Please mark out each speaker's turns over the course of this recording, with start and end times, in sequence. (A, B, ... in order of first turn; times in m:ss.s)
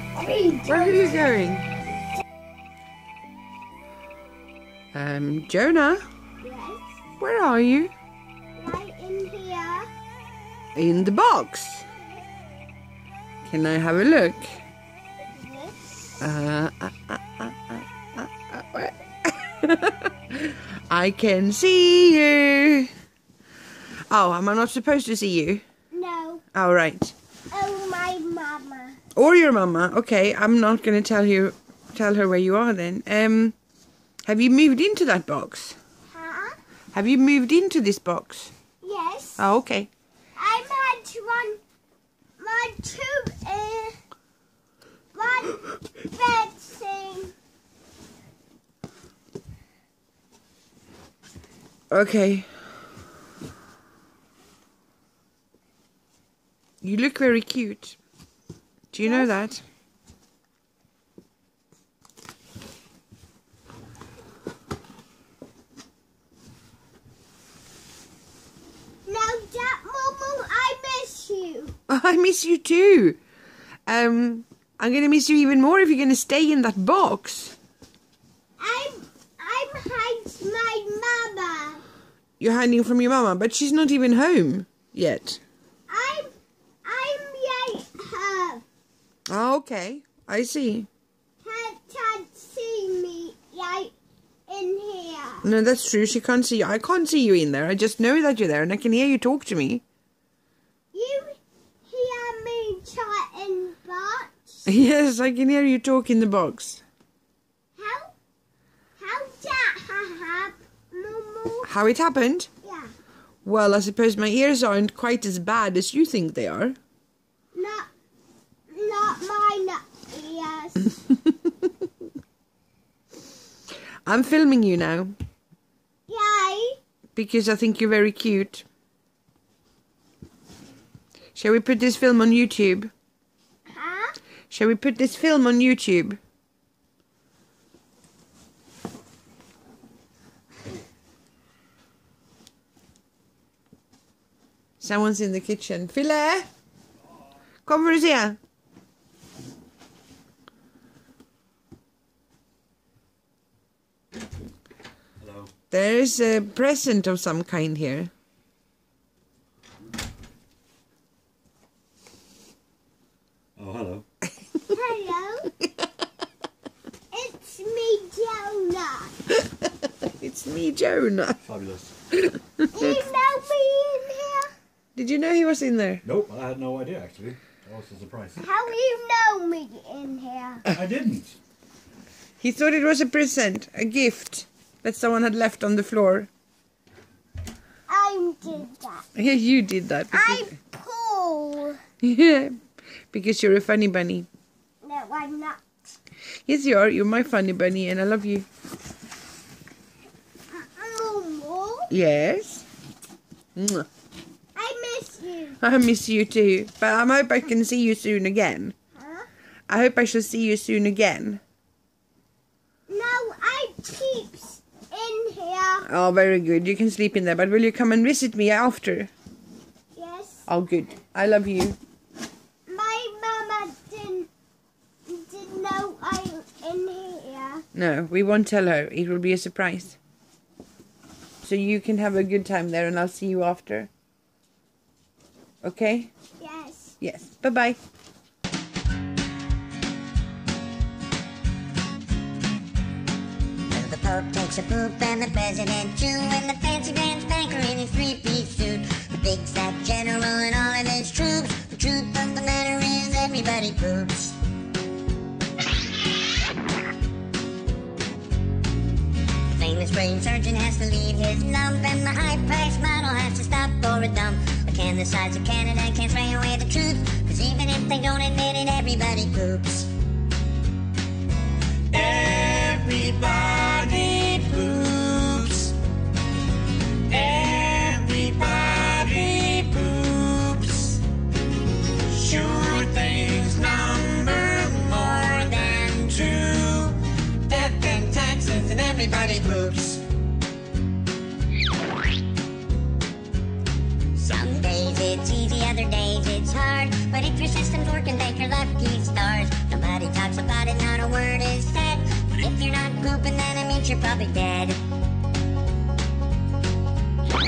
0:00.2-0:01.2 A
0:00.6-0:01.7 B
0:04.9-0:06.0 B
0:06.4-0:06.9 A
0:07.2-0:07.9 B
0:08.6-0:09.9 A
0:10.8-0:11.8 B
0:13.4-0:14.6 B
0:15.4-0:15.9 A
0:16.2-0:22.9 B
0:24.1-0:25.6 B
0:25.9-0:26.4 A
0:26.5-0:27.1 B
0:27.5-0:29.0 A
0:29.2-0:33.6 B
0:34.3-0:35.8 B
0:36.1-0:36.6 A
0:36.9-0:38.5 B
0:38.8-0:39.4 A
0:39.4-0:39.9 B
0:40.4-0:41.6 A
0:42.4-0:44.0 A
0:45.1-0:47.3 A
0:51.9-0:52.5 B
0:56.8-0:58.0 B
0:58.9-0:59.6 B
0:59.0-0:59.3 A
1:09.0-1:11.8 A
1:11.9-1:13.2 B
1:13.9-1:17.6 B
1:18.6-1:21.8 A
1:22.4-1:25.4 B
1:25.9-1:26.3 A
1:26.8-1:28.6 A
1:29.3-1:30.9 B
1:31.4-1:33.9 A
1:34.5-1:35.5 A
1:35.4-1:39.8 B
1:40.9-1:44.6 A
1:44.7-1:46.8 B
1:47.8-1:48.1 A
1:49.0-1:51.7 A
1:51.6-1:52.5 B
1:52.6-1:52.9 A
1:53.4-1:56.8 B
1:57.5-1:57.9 A
1:58.7-2:01.0 A
2:04.1-2:05.2 B
2:06.1-2:06.8 A
2:07.2-2:08.6 B
2:11.4-2:12.9 B
2:13.7-2:14.2 A
2:14.5-2:16.2 B
2:24.8-2:26.5 B
2:27.7-2:28.4 B
2:35.2-2:35.5 C
2:35.7-2:38.1 B
2:43.6-2:44.0 C
2:44.7-2:45.5 A
2:47.1-2:49.1 A
2:50.0-2:51.4 B
2:51.5-2:51.9 C
2:52.7-2:54.5 A
2:55.0-2:56.0 B
2:56.1-2:58.4 C
2:58.4-3:00.6 A
3:00.7-3:01.4 C
3:02.4-3:06.3 B
3:07.9-3:09.1 A
3:09.2-3:10.5 B
3:10.1-3:11.8 A
3:12.0-3:12.6 B
3:13.1-3:14.3 B
3:14.8-3:15.6 A
3:16.5-3:18.5 B
3:20.5-3:21.9 A
3:21.9-3:22.6 B
3:23.6-3:23.9 B
3:24.6-3:25.6 A
3:25.6-3:28.8 B
3:29.0-3:29.3 A
3:29.7-3:31.4 B
3:32.9-3:35.9 A
3:35.9-3:39.1 B
3:40.0-3:40.4 A
3:40.5-3:41.8 B
3:42.7-3:44.3 A
3:45.1-3:47.6 A
3:47.8-3:50.0 B
3:51.4-3:53.9 B
3:55.6-3:56.1 B
3:56.4-3:57.0 A
3:57.0-3:57.8 B
4:03.7-4:14.4 D
4:19.5-4:29.9 D
4:31.9-4:35.7 E
4:37.1-4:41.0 E
4:38.1-4:40.4 D
4:42.1-4:47.0 E
4:42.2-4:46.4 D
4:47.5-4:50.0 E
4:47.7-4:49.5 D
4:54.2-5:04.8 D